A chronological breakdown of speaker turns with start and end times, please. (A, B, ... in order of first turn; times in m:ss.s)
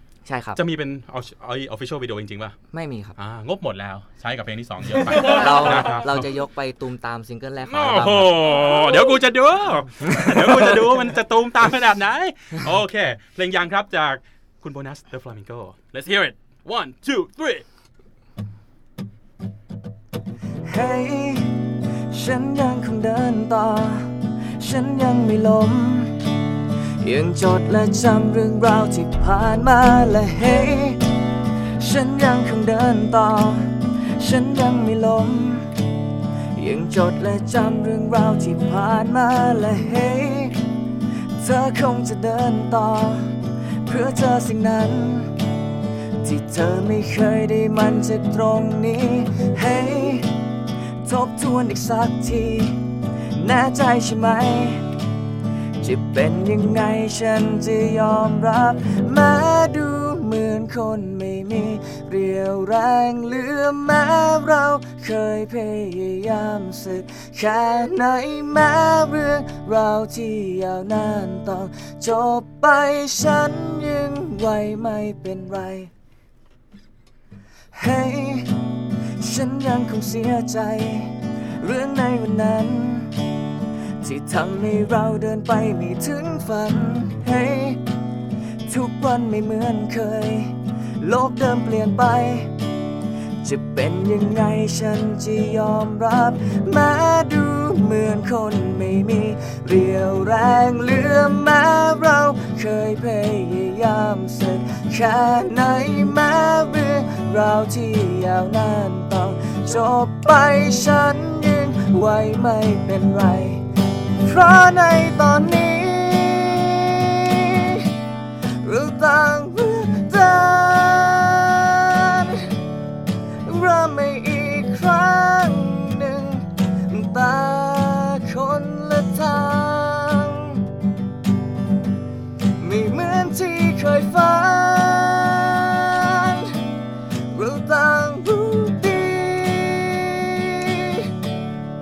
0:00.2-0:00.6 A
0:00.6-0:02.6 B
0:02.7-0:03.2 A
0:03.2-0:06.3 B
0:05.1-0:09.2 A
0:07.7-0:17.6 B
0:10.0-0:11.0 A
0:20.6-0:26.3 A
0:27.0-0:31.2 A
0:31.8-0:35.7 A
0:36.6-0:40.6 A
0:41.4-0:45.4 A
0:46.2-0:50.3 A
0:51.0-0:54.9 A
0:55.8-1:15.9 A
1:17.7-1:18.7 A
1:19.2-1:23.2 A
1:24.0-1:27.8 A
1:28.7-1:32.6 A
1:33.4-1:53.6 A
1:54.2-1:57.9 A
1:58.6-2:02.6 A
2:03.4-2:10.6 A
2:12.6-2:16.7 A
2:17.3-2:21.1 A